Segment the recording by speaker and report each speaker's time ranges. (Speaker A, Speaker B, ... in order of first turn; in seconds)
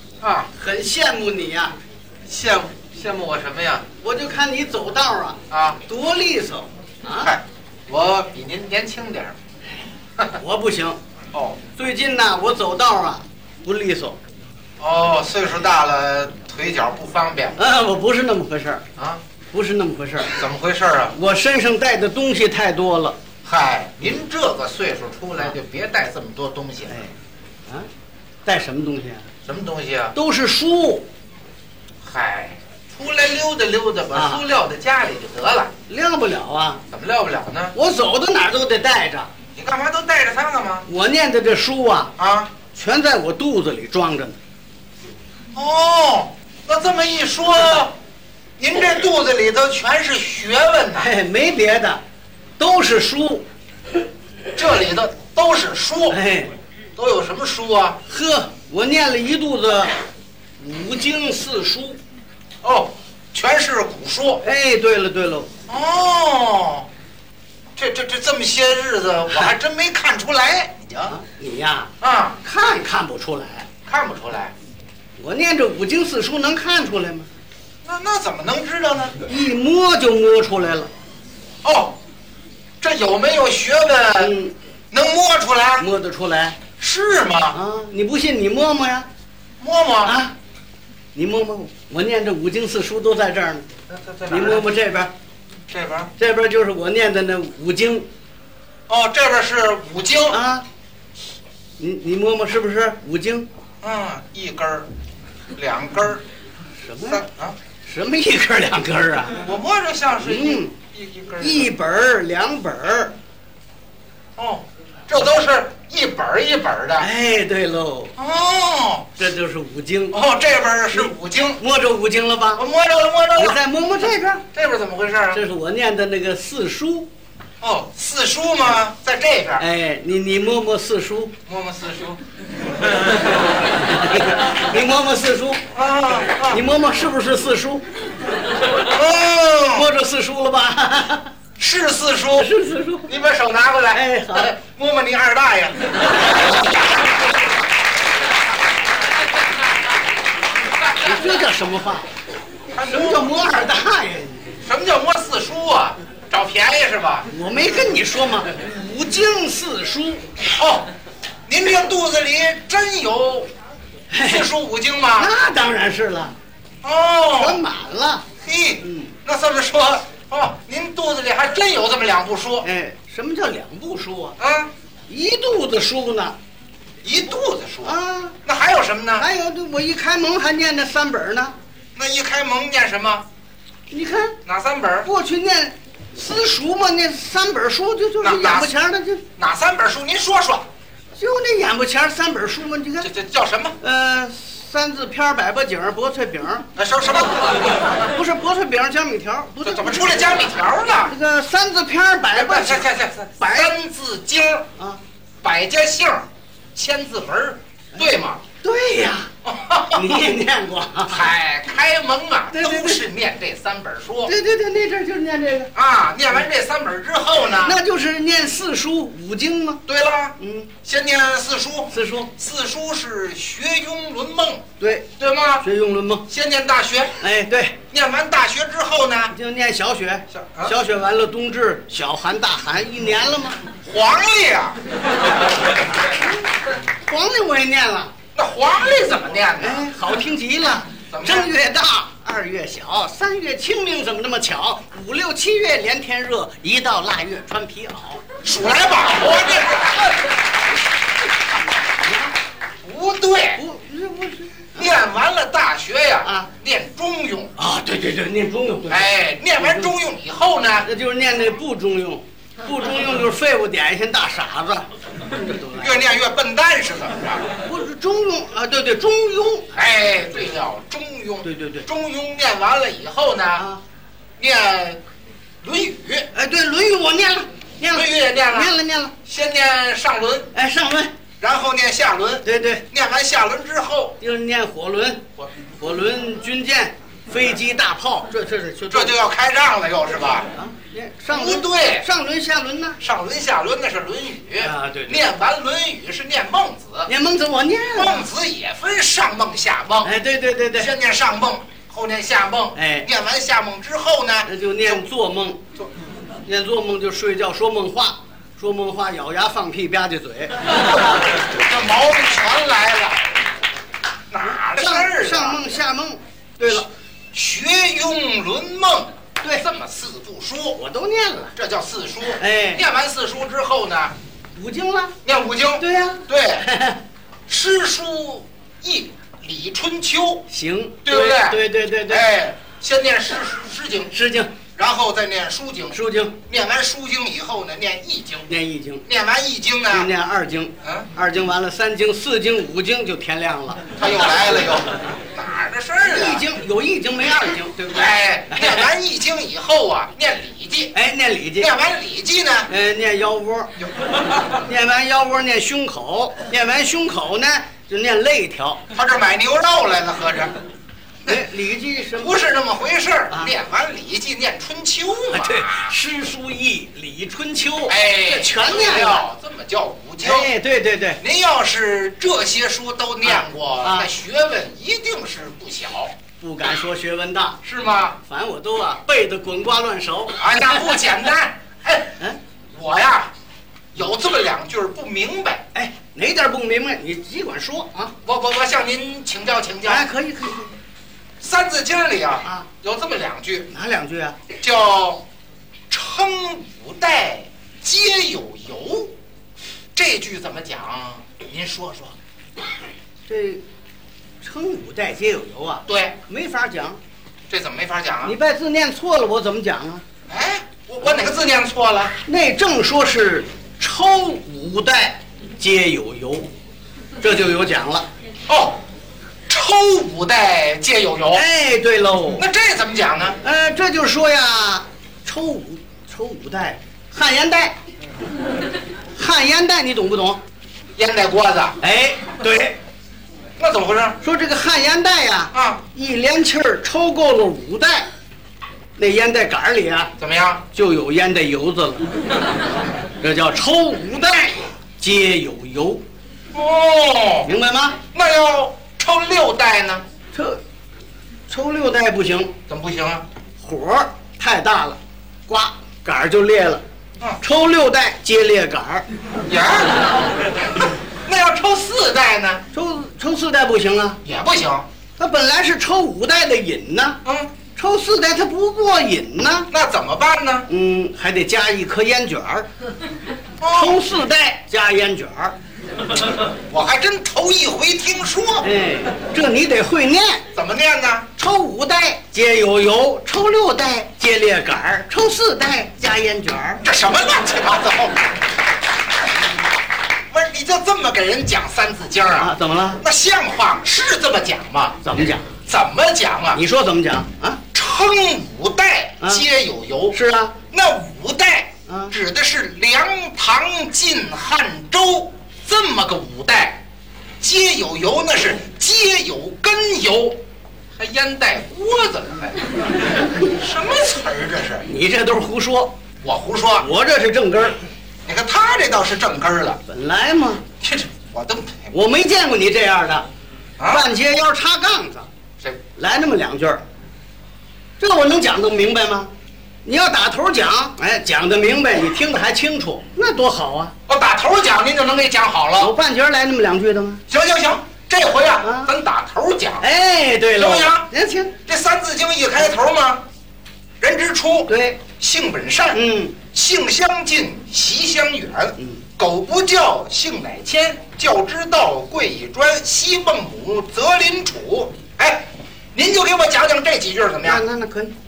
Speaker A: 0.2-0.5, 2.2-3.8, 5.5-5.8, 7.2-9.3, 11.3-11.6, 14.8-17.6, 20.2-21.1, 23.4-26.9, 29.4-30.1, 32.0-35.7, 36.9-37.7, 39.5-40.8, 42.2-42.5, 45.5-47.9, 48.6-51.1, 54.5-56.2, 57.0-58.0, 62.6-64.4, 65.7-66.9, 67.8-71.2, 72.0-72.4, 73.9-74.5, 77.8-79.2, 81.6-82.0, 82.8-84.3, 84.9-85.8, 86.8-87.6, 89.6-90.2, 93.9-94.7, 95.7-96.1, 98.9-100.4, 103.8-104.9, 105.5-106.2, 107.1-107.5, 109.3-111.7, 114.4-117.1, 118.2-119.1, 120.1-121.6, 122.5-123.6, 124.5-125.4, 127.6-129.6, 131.5-132.2, 135.7-136.6, 138.8-139.9, 141.6-142.5, 143.1-145.9, 152.7-153.3, 154.6-157.3, 160.6-160.9, 161.5-163.5, 164.2-165.3, 166.8-167.6, 168.4-172.7, 174.4-174.7, 177.0-179.2, 181.9-183.2, 184.4-185.1, 188.2-188.7, 189.4-190.7, 193.0-193.8, 196.7-197.6, 199.6-201.1, 202.3-204.7, 205.4-208.4, 209.4-210.2, 211.0-214.3, 215.7-217.8, 219.9-224.6, 225.2-225.6, 226.3-227.2, 227.9-229.3, 230.3-230.7, 233.8-234.8, 238.3-239.9, 241.1-241.5, 248.4-250.3, 252.8-253.6, 254.7-257.5, 258.9-260.9, 265.7-267.5, 269.7-273.6, 274.4-275.0, 275.6-276.3, 277.9-278.7, 279.2-280.5, 281.4-284.2, 288.9-290.5, 291.3-292.0, 293.0-297.1, 297.9-300.1, 300.8-305.0, 311.2-313.3, 314.3-315.6, 317.3-320.8, 321.6-324.1, 325.2-326.6, 327.5-330.4, 331.0-334.1, 334.7-338.5, 339.1-340.1, 340.8-341.1, 344.0-346.4, 347.9-350.9, 351.6-352.7, 358.9-360.5, 362.2-365.9, 367.9-370.5, 371.2-376.1, 377.6-378.2, 380.4-382.2, 382.7-383.3, 383.9-385.6, 388.2-390.1, 391.4-393.7, 394.6-395.2, 395.9-399.1, 399.9-402.1, 405.9-406.2, 407.5-408.4, 410.3-412.1, 418.5-418.8, 419.5-421.4, 422.4-423.4, 430.9-431.8, 433.6-434.2, 435.5-435.8, 440.2-440.6, 446.5-447.5, 448.1-450.0, 452.7-453.2, 459.4-460.1, 461.2-462.6, 464.2-464.9, 467.2-467.5, 469.7-470.7, 473.6-474.0, 476.7-478.6, 480.5-481.3, 486.8-488.4, 490.3-495.0, 495.6-496.6, 497.7-500.1, 500.7-506.8, 507.4-510.4, 511.0-512.6, 513.5-514.9, 516.2-516.9, 518.2-519.8, 520.8-521.9, 523.8-524.1, 534.1-535.9, 537.3-539.9, 540.5-541.1, 541.6-543.2, 544.0-557.6
Speaker B: 0.6-1.7, 4.0-7.3, 10.3-11.0, 11.8-14.2, 17.6-18.8, 19.5-20.4, 21.1-23.1, 28.4-29.2, 30.1-31.1, 34.1-34.4, 35.9-36.8, 37.7-39.3, 40.9-42.1, 42.7-44.4, 51.0-52.0, 52.6-53.4, 56.1-56.5, 58.1-60.0, 60.6-62.0, 64.4-65.5, 71.1-71.9, 72.4-73.7, 75.2-77.3, 79.2-80.9, 84.2-84.5, 85.8-86.6, 87.5-89.1, 90.0-90.3, 91.1-93.6, 94.3-95.1, 96.2-98.0, 100.3-100.6, 101.8-103.5, 106.8-107.2, 107.8-109.4, 110.2-110.7, 111.4-113.1, 117.0-118.1, 119.2-120.2, 120.9-122.7, 123.3-124.4, 125.3-127.1, 129.6-131.3, 133.9-135.6, 136.5-137.8, 139.7-141.3, 142.3-143.1, 143.9-144.5, 151.0-152.1, 152.8-154.5, 157.3-160.2, 164.1-164.5, 165.2-166.3, 167.4-168.2, 168.8-169.1, 172.6-174.3, 175.1-176.4, 177.8-178.3, 179.2-181.5, 183.9-184.4, 185.0-189.2, 191.2-193.1, 193.8-196.7, 198.1-200.4, 201.1-202.9, 208.6-209.3, 209.9-211.2, 212.5-213.0, 214.2-215.7, 217.6-219.8, 220.4-220.7, 221.9-222.3, 224.8-225.1, 225.6-226.2, 227.2-227.8, 229.3-233.6, 237.0-238.1, 239.6-248.2, 253.6-254.9, 256.2-256.5, 257.6-259.9, 260.8-265.9, 267.6-269.7, 271.4-271.9, 276.3-279.1, 280.5-281.1, 282.4-282.8, 284.2-285.2, 285.8-289.1, 290.5-293.0, 294.6-295.2, 297.1-298.3, 300.0-300.9, 302.7-303.1, 304.4-305.6, 306.4-310.6, 314.4-316.9, 320.8-321.5, 322.4-322.8, 324.6-325.1, 325.8-327.0, 330.5-332.3, 334.1-334.5, 335.9-336.4, 338.5-339.1, 339.9-343.9, 346.1-348.9, 350.9-351.7, 352.7-353.7, 354.5-358.8, 361.2-362.4, 365.3-369.2, 370.2-371.2, 373.2-374.1, 376.4-377.6, 378.2-381.0, 385.7-388.1, 389.8-390.7, 393.7-394.4, 403.3-403.6, 404.4-407.0, 408.2-410.0, 411.0-411.3, 412.2-416.5, 417.2-418.1, 421.3-422.4, 423.4-427.8, 429.1-430.4, 431.8-432.8, 434.2-438.1, 439.0-440.1, 440.7-442.1, 443.2-446.0, 447.4-448.0, 450.3-450.6, 451.5-452.5, 453.6-456.8, 457.4-459.1, 462.7-464.2, 465.2-467.2, 467.8-469.7, 470.7-472.7, 473.7-475.6, 478.6-480.4, 481.4-486.8, 492.4-493.0, 495.0-495.5, 496.5-497.6, 499.2-499.4, 500.1-500.5, 501.9-502.1, 514.8-515.9, 516.8-517.8, 519.9-520.6, 521.9-523.3, 523.9-525.3, 526.0-526.8, 528.0-529.3, 529.8-533.9, 535.8-537.2, 538.6-538.9, 539.8-541.5, 544.7-545.0, 545.9-546.4, 548.8-549.0, 557.4-558.1